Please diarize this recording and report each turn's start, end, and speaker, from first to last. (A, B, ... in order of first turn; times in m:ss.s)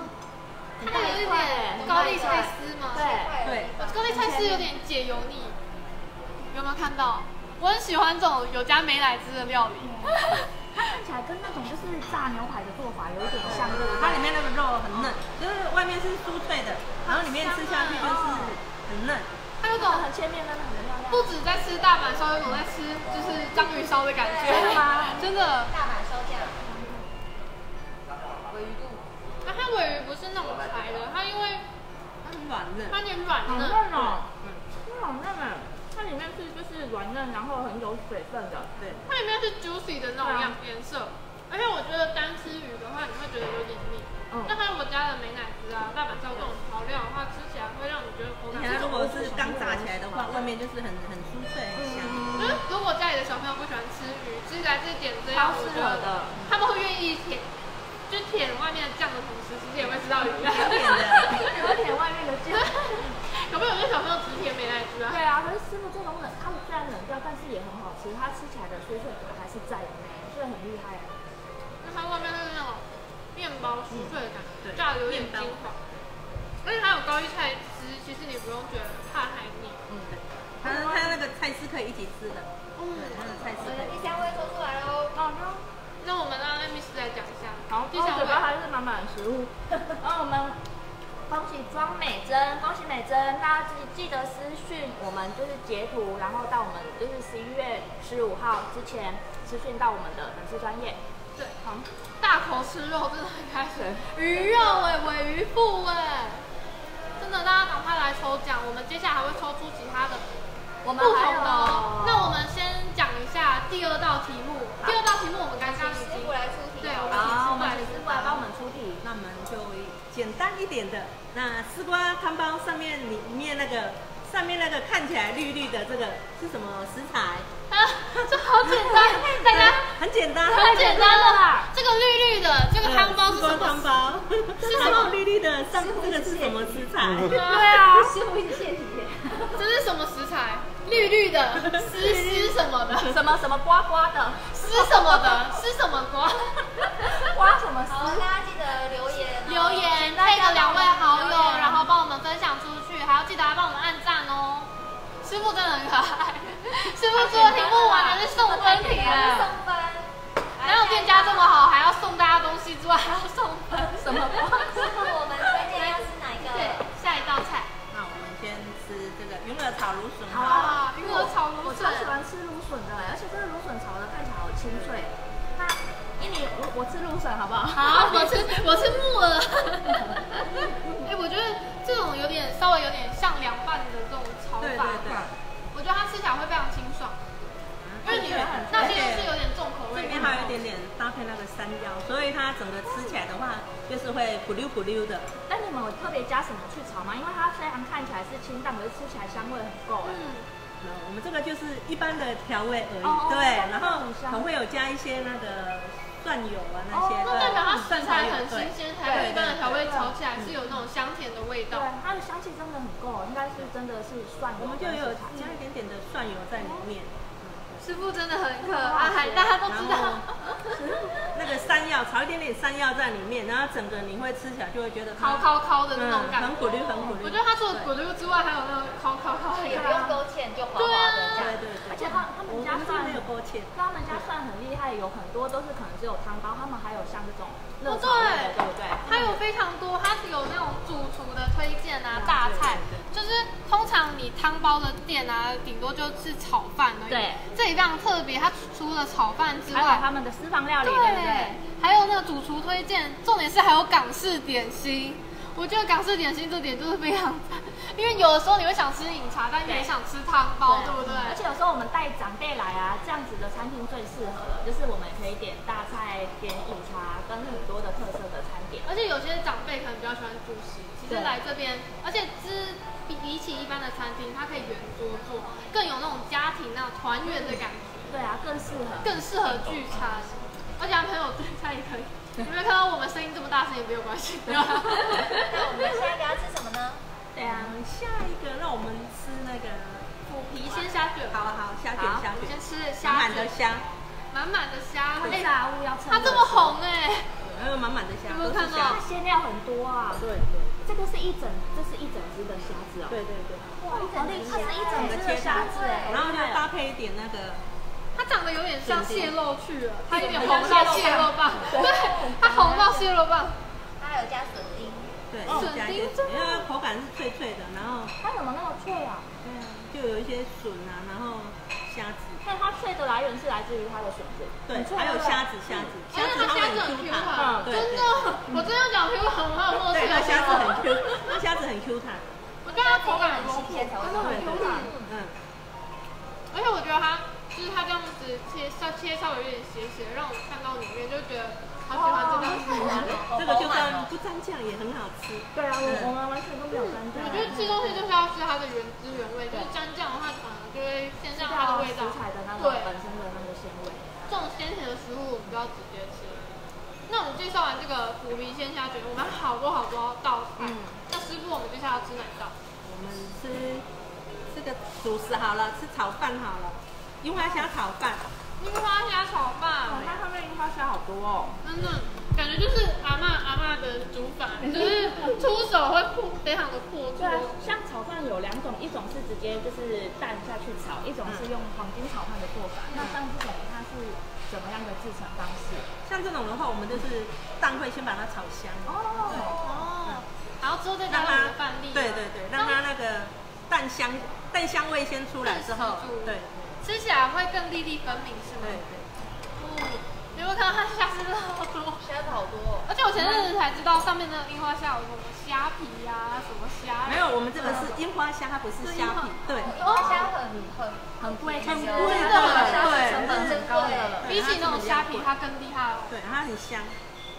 0:00.8-0:03.3 A
0:00.8-0:03.1 B
0:00.9-0:01.2 C
0:01.8-0:04.1 C
0:03.4-0:04.4 D
0:03.8-0:05.6 B
0:04.1-0:04.7 A
0:06.5-0:10.4 B
0:09.8-0:10.2 A
0:10.8-0:14.3 A
0:13.4-0:19.3 D
0:17.0-0:18.5 B
0:18.0-0:18.5 A
0:19.6-0:20.1 B
0:19.7-0:21.3 A
0:21.1-0:25.7 B
0:23.3-0:23.9 A
0:24.2-0:26.7 C
0:24.4-0:25.2 A
0:26.7-0:27.0 A
0:28.5-0:29.0 C
0:29.4-0:31.6 B
0:32.2-0:33.0 D
0:32.9-0:33.8 B
0:33.4-0:38.9 A
0:33.9-0:34.6 D
0:39.1-0:49.2 B
0:40.2-0:40.6 A
0:44.3-0:44.6 A
0:48.5-0:52.5 D
0:48.6-0:50.5 A
0:51.7-0:52.6 A
0:52.4-0:57.5 B
0:55.3-0:56.5 A
0:58.1-1:01.5 B
1:00.4-1:01.4 D
1:01.3-1:03.1 A
1:02.6-1:05.2 B
1:05.1-1:11.1 A
1:11.8-1:15.8 B
1:14.6-1:15.6 D
1:16.6-1:19.8 B
1:19.9-1:24.3 D
1:20.6-1:21.2 A
1:22.8-1:23.2 B
1:23.6-1:25.2 C
1:25.1-1:25.6 A
1:26.0-1:28.5 B
1:27.7-1:30.6 A
1:31.3-1:41.0 A
1:42.2-1:46.4 B
1:43.8-1:44.1 A
1:47.2-1:50.2 B
1:50.8-1:52.4 A
1:51.0-1:58.4 B
1:55.6-1:58.4 C
1:57.1-1:59.0 A
1:59.0-2:07.5 D
2:07.7-2:10.0 B
2:08.1-2:10.9 D
2:08.9-2:09.8 A
2:10.4-2:11.7 A
2:10.5-2:13.8 B
2:12.8-2:17.4 D
2:14.6-2:15.2 B
2:14.6-2:15.2 A
2:15.7-2:19.6 A
2:17.2-2:17.9 B
2:17.9-2:18.6 C
2:19.5-2:23.2 B
2:21.6-2:22.6 D
2:23.0-2:25.6 A
2:24.5-2:27.2 B
2:27.0-2:28.3 A
2:27.9-2:31.6 C
2:29.4-2:34.7 B
2:30.0-2:31.9 A
2:35.2-2:39.5 B
2:37.1-2:39.6 A
2:37.2-2:41.7 C
2:40.6-2:46.0 B
2:43.9-2:45.0 A
2:44.7-2:46.8 C
2:46.5-2:47.7 B
2:47.9-2:50.8 D
2:50.3-2:59.0 A
2:50.4-2:52.1 B
2:57.7-3:05.1 B
3:00.5-3:01.0 A
3:04.6-3:05.3 D
3:05.7-3:07.2 B
3:07.8-3:09.4 D
3:08.0-3:10.6 B
3:08.1-3:09.0 A
3:09.9-3:15.3 D
3:15.5-3:20.2 A
3:20.0-3:20.4 B
3:20.8-3:29.8 D
3:23.0-3:24.5 A
3:26.9-3:27.9 A
3:27.2-3:31.9 B
3:29.0-3:30.1 A
3:31.7-3:35.6 A
3:34.6-3:37.8 D
3:36.6-3:36.8 A
3:37.8-3:40.8 B
3:38.6-3:39.6 A
3:39.6-3:40.2 D
3:40.7-3:41.3 A
3:41.3-3:47.9 D
3:45.2-3:50.1 B
3:49.6-3:51.6 C
3:49.7-3:50.2 A
3:50.7-3:51.5 B
3:51.4-3:54.2 D
3:51.8-3:59.0 A
3:57.8-4:10.0 B
3:59.0-3:59.4 D
4:02.1-4:02.4 A
4:02.4-4:03.0 D
4:07.1-4:07.4 A
4:09.7-4:11.6 A
4:10.8-4:21.4 B
4:20.6-4:28.8 A
4:28.8-4:38.2 B
4:31.1-4:31.4 A
4:38.1-4:39.2 A
4:39.0-4:45.4 B
4:44.8-4:45.4 A
4:45.5-4:47.0 C
4:47.3-4:47.7 A
4:47.4-4:50.1 D
4:50.3-4:51.4 B
4:51.3-4:53.9 D
4:52.0-4:52.2 A
4:52.2-4:53.5 B
4:54.3-4:55.5 B
4:55.2-4:56.8 A
4:56.0-4:57.3 B
4:57.4-4:59.0 D
4:58.3-4:59.0 B
4:58.8-5:00.2 A
5:00.1-5:00.8 D
5:00.8-5:03.2 A
5:03.1-5:07.6 D
5:03.8-5:06.6 A
5:03.9-5:06.2 C
5:04.0-5:04.9 B
5:08.2-5:13.5 B
5:08.8-5:09.3 D
5:10.1-5:13.1 A
5:14.0-5:15.1 C
5:15.3-5:18.1 D
5:15.4-5:15.7 A
5:15.5-5:16.7 B
5:18.2-5:19.3 A
5:19.4-5:22.4 D
5:22.4-5:25.9 A
5:24.7-5:28.2 D
5:26.1-5:30.9 B
5:27.3-5:27.7 A
5:29.9-5:32.3 D
5:32.6-5:34.9 B
5:32.7-5:35.1 C
5:34.0-5:34.9 A
5:34.1-5:35.4 D
5:36.5-5:43.2 B
5:41.9-5:43.2 A
5:42.4-5:44.1 C
5:43.3-5:46.1 D
5:45.5-5:48.1 A
5:46.7-5:52.9 B
5:47.2-5:47.5 D
5:51.3-5:54.0 A
5:54.3-5:56.5 B
5:57.1-6:02.5 B
6:00.6-6:00.9 A
6:02.8-6:03.8 D
6:04.5-6:08.2 D
6:08.6-6:10.2 B
6:09.8-6:11.6 A
6:11.6-6:17.6 B
6:14.8-6:15.3 A
6:17.2-6:25.9 A
6:26.0-6:30.2 D
6:28.8-6:29.6 A
6:29.4-6:32.8 B
6:31.1-6:36.8 D
6:35.4-6:38.8 B
6:38.6-6:39.1 D
6:39.6-6:42.0 B
6:42.0-6:42.9 C
6:42.9-6:47.9 B
6:43.1-6:43.5 A
6:47.0-6:49.7 D
6:47.6-6:47.9 A
6:48.8-6:50.3 B
6:49.6-6:54.3 C
6:49.8-6:50.3 A
6:51.2-6:54.3 A
6:51.6-6:53.6 D
6:52.1-6:53.0 B
6:54.2-6:55.3 D
6:54.2-6:56.1 B
6:56.1-6:56.9 D